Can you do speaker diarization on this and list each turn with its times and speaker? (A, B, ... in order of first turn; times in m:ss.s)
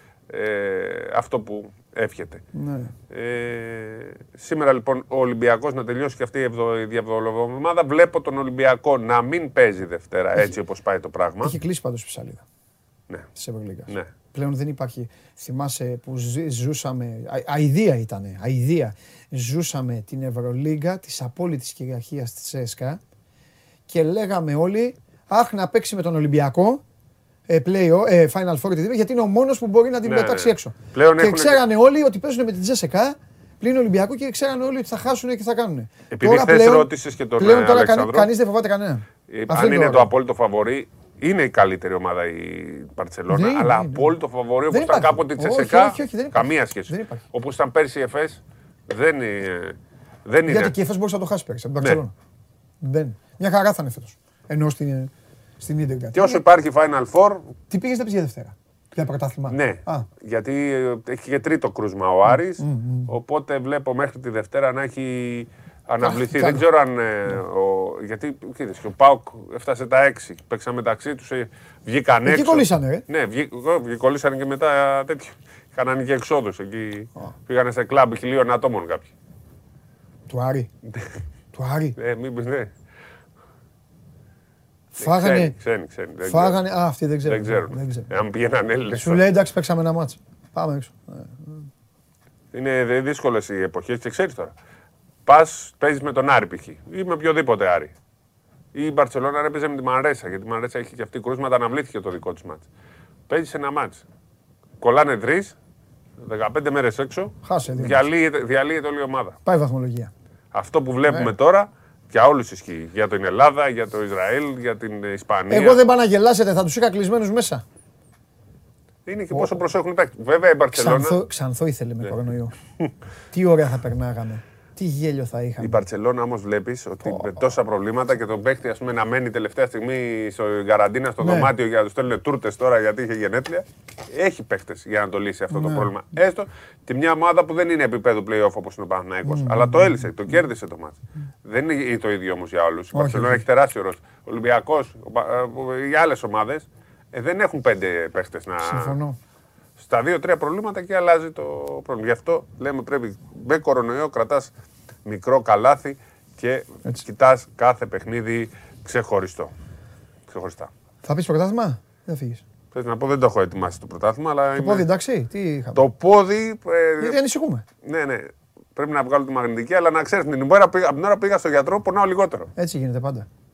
0:00.3-0:02.4 A
0:02.5-0:02.9 B
0:03.1-0:11.5 A
0:11.4-0:12.4 B
0:13.4-0:23.0 B
0:23.9-0:26.8 B
0:27.5-0:40.1 B
0:30.0-0:31.6 A
0:36.1-0:38.3 A
0:39.3-0:50.7 A
0:43.3-0:44.1 B
0:44.7-0:47.2 B
0:50.4-0:52.1 B
0:52.8-0:56.4 B
0:56.1-0:57.5 A
0:57.7-1:00.1 B
0:59.5-1:19.1 A
1:02.3-1:03.1 B
1:06.0-1:06.6 B
1:12.2-1:13.0 B
1:20.3-1:20.7 B
1:21.5-1:21.9 B
1:22.0-1:22.7 A
1:24.9-1:25.6 B
1:25.0-1:26.6 A
1:26.2-1:28.1 B
1:27.2-1:29.2 A
1:28.9-1:31.7 B
1:32.5-1:34.5 A
1:35.2-1:37.9 A
1:38.7-1:42.6 A
1:43.3-1:44.0 A
1:44.8-1:45.5 A
1:46.2-1:49.4 A
1:47.4-1:48.0 B
1:49.4-1:50.1 B
1:50.5-1:55.8 A
1:51.1-1:51.3 B
1:55.5-1:57.6 B
1:59.0-2:01.2 A
1:59.3-1:59.6 B
2:00.7-2:02.6 B
2:03.3-2:05.8 B
2:05.6-2:29.0 A
2:07.0-2:07.4 B
2:11.2-2:11.5 B
2:15.5-2:15.9 B
2:19.3-2:20.0 B
2:22.9-2:23.4 B
2:28.6-2:29.2 B
2:29.8-2:34.5 A
2:35.0-2:39.5 A
2:40.3-2:40.7 A
2:41.0-2:42.4 B
2:42.7-2:44.8 A
2:44.6-2:45.8 B
2:45.7-2:47.2 A
2:47.0-2:47.6 B
2:47.8-2:52.5 A
2:52.6-2:53.3 B